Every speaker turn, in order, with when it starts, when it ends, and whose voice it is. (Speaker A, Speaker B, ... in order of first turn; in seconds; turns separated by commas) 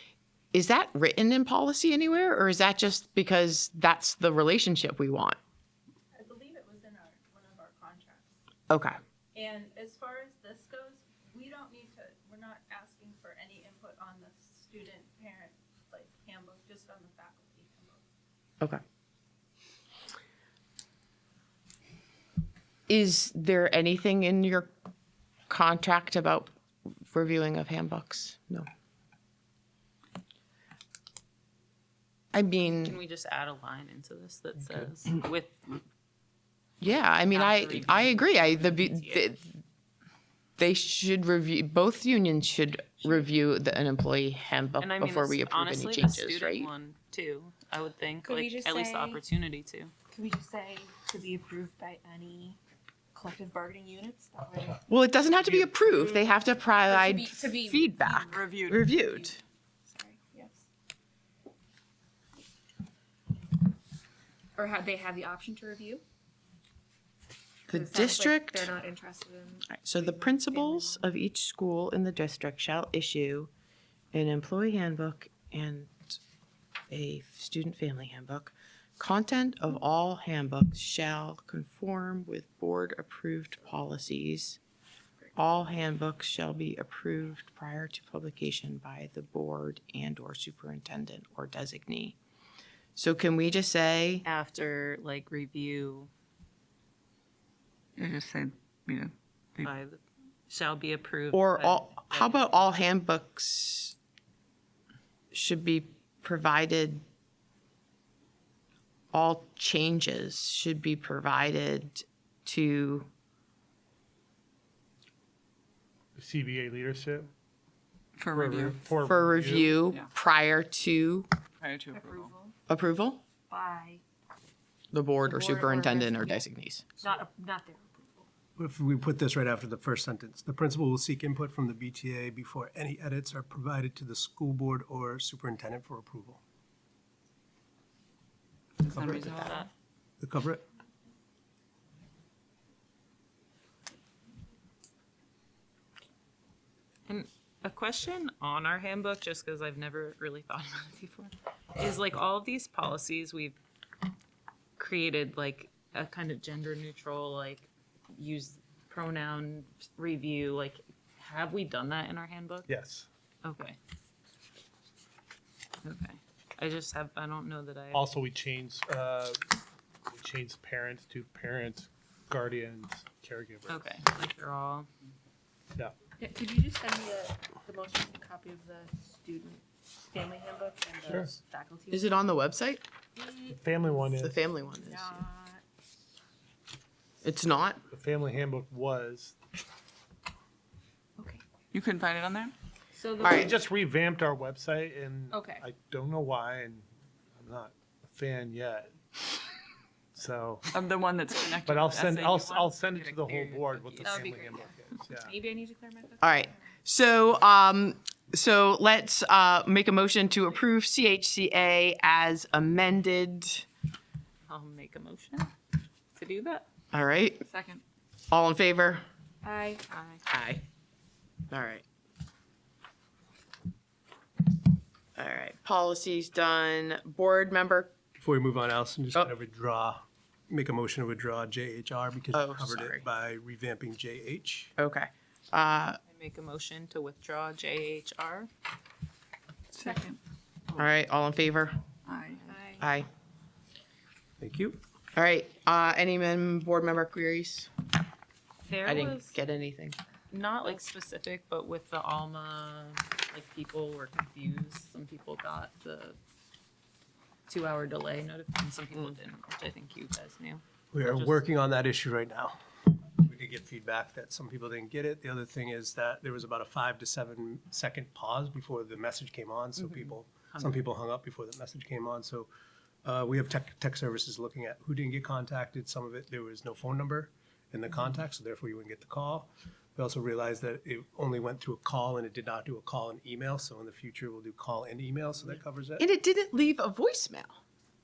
Speaker A: 0.5-5.4, Speaker B: 6.2-8.2, Speaker A: 8.7-9.0, Speaker B: 9.4-10.6, Speaker B: 11.3-15.5, Speaker B: 16.1-17.1, Speaker C: 17.3-18.0, Speaker A: 22.9-24.7, Speaker A: 25.5-26.5, Speaker A: 27.1-28.7, Speaker A: 32.3-33.0, Speaker D: 32.8-35.8, Speaker A: 36.8-39.4, Speaker D: 37.3-39.3, Speaker A: 40.6-46.7, Speaker D: 44.8-49.9, Speaker C: 50.2-52.6, Speaker B: 53.2-54.6, Speaker A: 54.9-59.4, Speaker C: 56.9-57.8, Speaker E: 58.3-58.8, Speaker B: 60.0-60.4, Speaker C: 60.0-60.6, Speaker C: 64.6-66.0, Speaker A: 67.7-68.7, Speaker C: 67.7-71.0, Speaker A: 69.7-73.5, Speaker A: 74.1-76.2, Speaker A: 76.9-84.6, Speaker A: 85.3-92.2, Speaker A: 93.0-94.2, Speaker D: 94.2-96.1, Speaker E: 98.0-99.7, Speaker D: 99.6-102.6, Speaker A: 101.3-104.0, Speaker A: 105.3-107.0, Speaker A: 109.1-113.1, Speaker F: 116.2-117.3, Speaker E: 118.2-118.8, Speaker F: 118.3-119.8, Speaker A: 119.0-121.3, Speaker E: 121.6-122.3, Speaker A: 122.7-123.2, Speaker A: 124.9-126.9, Speaker C: 125.3-126.2, Speaker C: 127.2-128.2, Speaker G: 128.6-136.4, Speaker E: 138.8-139.7, Speaker G: 138.9-139.6, Speaker D: 139.4-139.7, Speaker G: 140.2-140.7, Speaker D: 147.1-153.6, Speaker D: 154.8-162.7, Speaker F: 162.7-163.1, Speaker D: 163.4-163.8, Speaker D: 165.8-168.1, Speaker F: 167.9-169.4, Speaker F: 170.1-174.0, Speaker D: 173.7-174.9, Speaker B: 176.2-176.6, Speaker C: 176.3-180.9, Speaker B: 177.7-178.0, Speaker B: 180.9-181.6, Speaker F: 181.0-181.3, Speaker C: 181.6-182.0, Speaker A: 181.9-182.8, Speaker C: 183.2-183.4, Speaker F: 183.5-184.4, Speaker A: 184.1-185.2, Speaker C: 184.8-185.6, Speaker A: 187.2-187.8, Speaker F: 187.9-189.3, Speaker E: 191.7-192.5, Speaker F: 193.2-198.9, Speaker A: 193.2-193.5, Speaker B: 195.3-195.6, Speaker F: 200.1-200.7, Speaker E: 200.7-202.2, Speaker F: 201.7-205.4, Speaker D: 201.9-204.5, Speaker C: 204.0-204.4, Speaker A: 206.2-213.7, Speaker D: 214.5-215.5, Speaker D: 216.1-216.7, Speaker A: 216.9-217.4, Speaker A: 218.3-219.0, Speaker C: 219.4-219.8, Speaker D: 219.9-220.2, Speaker A: 220.3-220.6, Speaker A: 221.5-221.8, Speaker A: 225.2-227.9, Speaker G: 228.2-234.7, Speaker A: 232.3-233.0, Speaker A: 234.8-236.0, Speaker D: 236.1-238.5, Speaker E: 239.7-240.2, Speaker A: 240.7-241.8, Speaker E: 242.1-242.5, Speaker A: 242.8-243.1, Speaker G: 244.4-244.8, Speaker A: 245.1-247.7, Speaker D: 248.7-249.3, Speaker A: 248.8-250.0, Speaker D: 250.3-256.2, Speaker D: 257.5-261.5, Speaker G: 260.9-272.5, Speaker D: 269.8-270.9, Speaker G: 273.0-286.0, Speaker A: 286.0-287.6